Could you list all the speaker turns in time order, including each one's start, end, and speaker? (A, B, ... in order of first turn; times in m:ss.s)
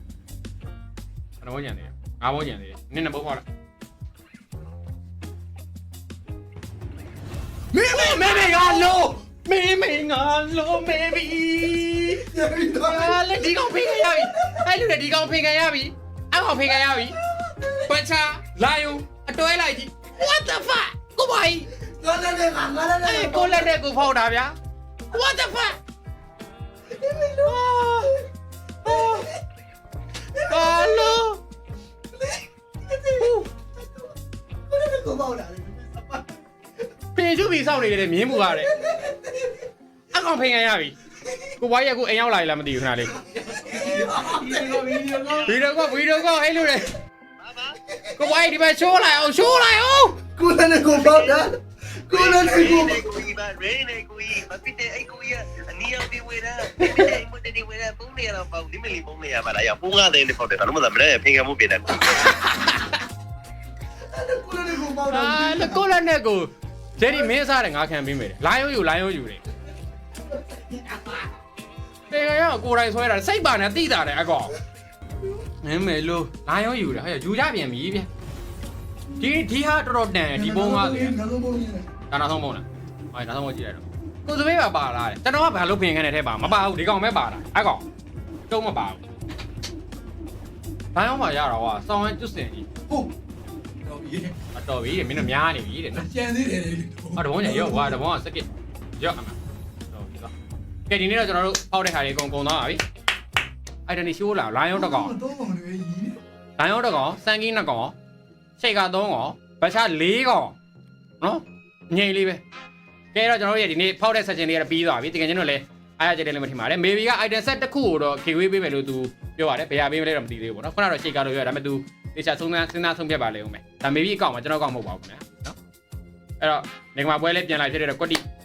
0:01.4-0:03.4 A
0:07.7-0:12.3 A
0:07.8-0:09.0 B
0:12.2-0:13.2 B
0:12.8-0:17.2 A
0:17.7-0:21.7 A
0:21.9-0:23.7 B
0:23.0-0:24.6 A
0:25.1-0:25.8 A
0:26.9-0:27.5 B
0:27.3-0:28.2 A
0:28.8-0:29.3 A
0:30.4-0:31.4 A
0:30.5-0:31.1 B
0:32.9-0:33.3 B
0:33.1-0:33.5 A
0:34.7-0:36.3 B
0:37.1-0:38.8 A
0:38.6-0:39.4 B
0:40.1-0:40.9 A
0:41.6-0:43.2 A
0:43.3-0:45.5 B
0:43.8-0:45.4 C
0:45.4-0:47.0 A
0:47.4-0:47.8 C
0:48.1-0:50.2 A
0:50.4-0:53.1 B
0:51.0-0:51.4 C
0:52.1-1:02.4 C
1:02.3-1:02.9 A
1:04.0-1:05.8 B
1:05.1-1:09.4 A
1:10.5-1:11.2 B
1:12.1-1:14.5 A
1:15.6-1:18.1 A
1:19.2-1:21.2 A
1:20.3-1:21.9 B
1:22.1-1:27.8 A
1:28.5-1:29.0 A
1:30.9-1:32.7 A
1:32.9-1:33.1 B
1:33.8-1:34.3 B
1:34.5-1:36.1 A
1:35.9-1:38.0 B
1:37.2-1:39.4 A
1:39.9-1:40.3 A
1:40.9-1:42.8 A
1:43.8-1:45.1 A
1:44.7-1:46.2 B
1:46.6-1:47.9 A
1:48.6-1:50.6 A
1:51.2-1:52.4 A
1:53.1-2:05.6 A
2:06.4-2:08.2 A